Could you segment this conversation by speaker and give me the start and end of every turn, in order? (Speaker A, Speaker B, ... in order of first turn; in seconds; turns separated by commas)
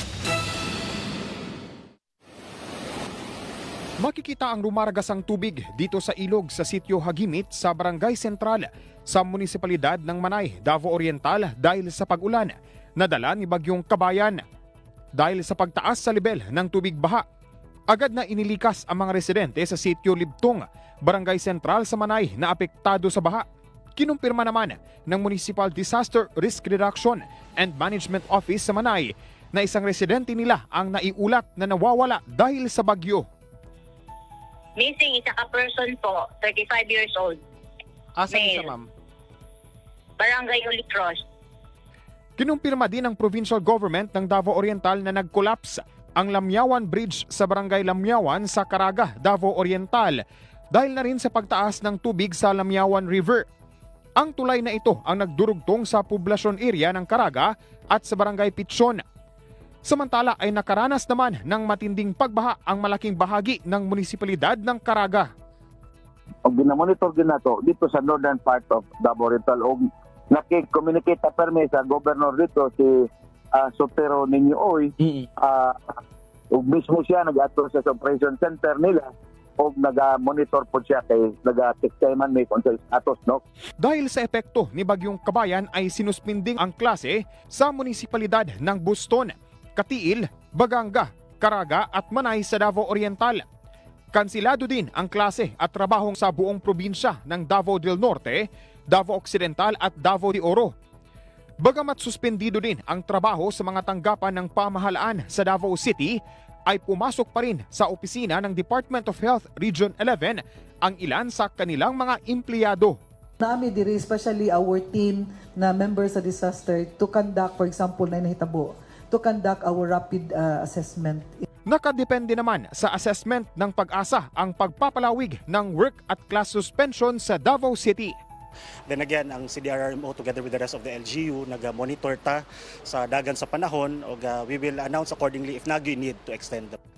Speaker A: 4.0-14.4, Speaker A: 15.2-17.2, Speaker A: 17.9-23.4, Speaker A: 24.0-33.2, Speaker B: 34.8-37.4, Speaker B: 38.3-38.7, Speaker A: 38.3-38.7, Speaker B: 40.2-41.2, Speaker A: 42.4-50.2, Speaker A: 50.7-53.4, Speaker A: 54.2-59.0, Speaker A: 59.9-65.3, Speaker C: 66.4-76.0, Speaker C: 76.5-83.4, Speaker A: 83.8-93.4, Speaker A: 94.1-100.7, Speaker A: 101.6-106.2, Speaker A: 106.7-113.0, Speaker D: 113.4-121.4, Speaker A: 121.7-128.2, Speaker E: 128.9-136.8